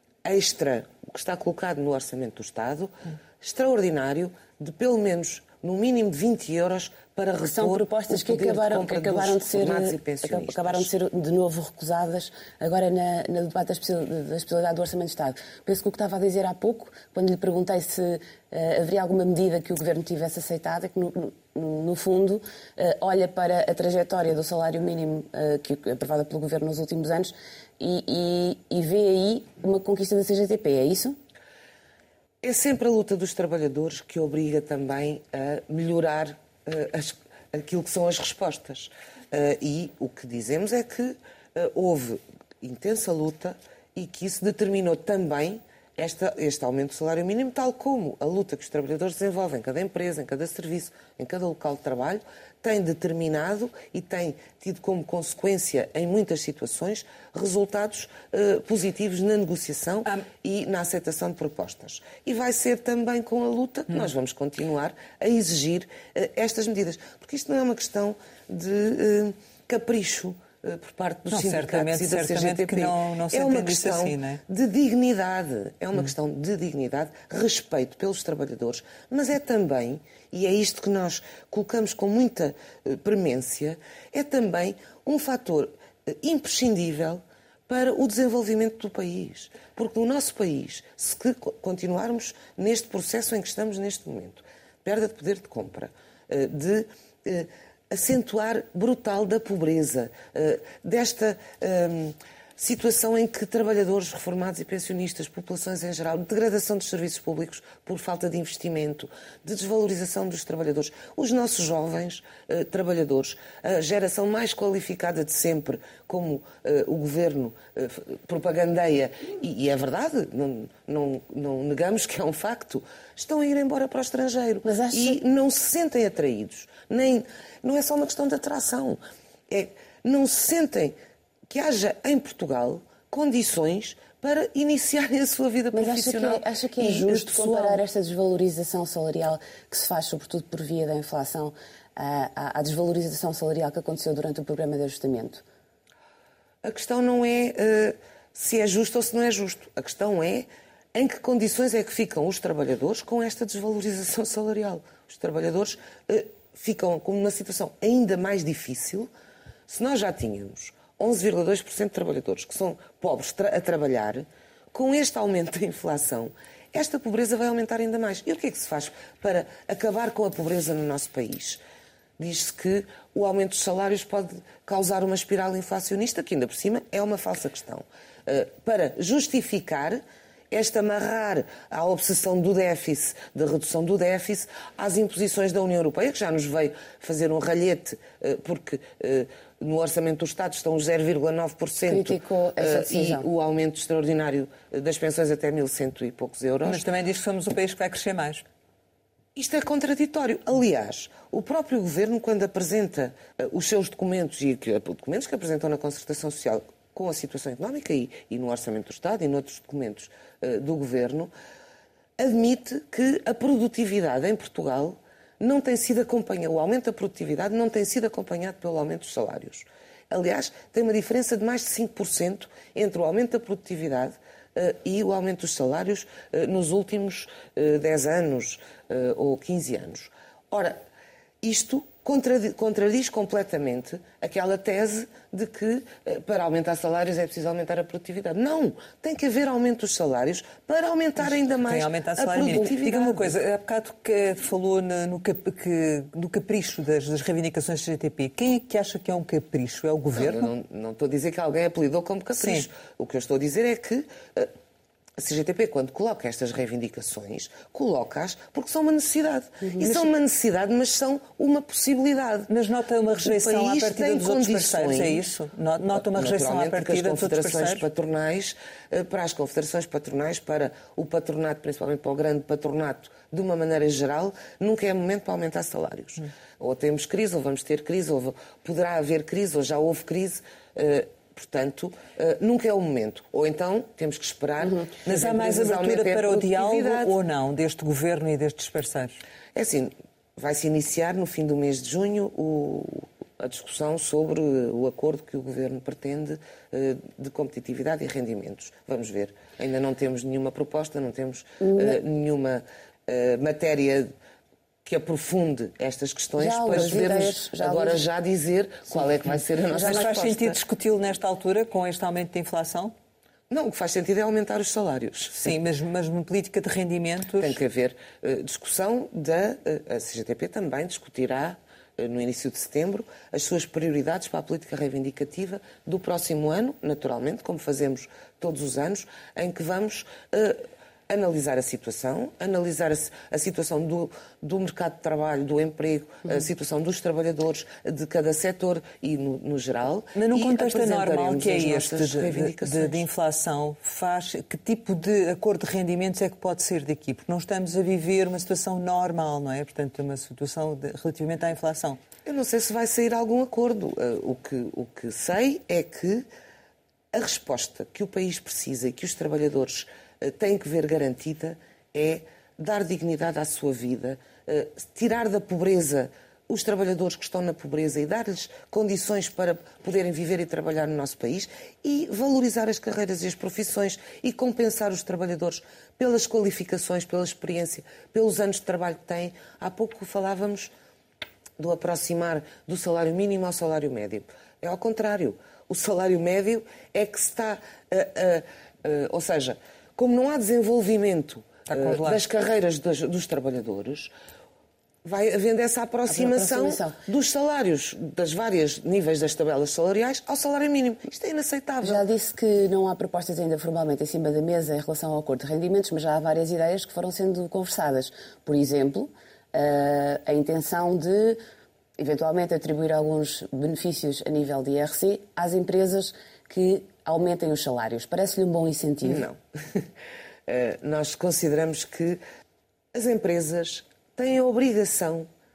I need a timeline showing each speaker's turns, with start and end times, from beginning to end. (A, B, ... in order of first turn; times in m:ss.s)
0:00.2-0:10.9 A
0:07.5-0:31.2 B
0:32.4-2:10.9 A
1:11.3-1:14.4 C
2:04.6-2:05.2 B
2:11.5-2:17.8 A
2:15.7-2:25.4 B
2:26.6-2:39.1 A
2:39.7-2:51.6 A
2:52.2-3:16.8 A
3:11.9-3:13.2 B
3:16.6-3:18.4 C
3:19.4-3:31.3 A
3:32.2-3:50.8 A
3:51.4-4:03.3 A
4:01.6-4:10.5 C
4:10.1-4:14.5 A
4:12.4-4:12.6 C
4:15.2-4:22.5 A
4:19.8-4:20.1 C
4:22.5-4:27.8 C
4:23.2-4:25.2 A
4:25.9-4:47.1 A
4:45.1-4:49.2 C
4:49.6-5:04.1 A
5:01.6-5:02.0 B
5:04.8-5:10.6 A
5:06.4-5:08.0 B
5:09.7-5:12.9 C
5:13.5-5:15.6 A
5:15.3-5:17.6 C
5:17.4-5:43.0 A
5:40.1-5:52.0 C
5:52.2-5:56.2 A
5:57.1-6:20.7 A
6:21.6-6:34.1 A
6:31.7-6:32.2 C
6:35.0-6:42.1 A
6:36.1-6:37.0 B
6:41.8-6:51.4 B
6:52.0-6:59.2 B
6:59.0-6:59.9 A
7:00.5-7:02.2 A
7:02.9-7:05.3 A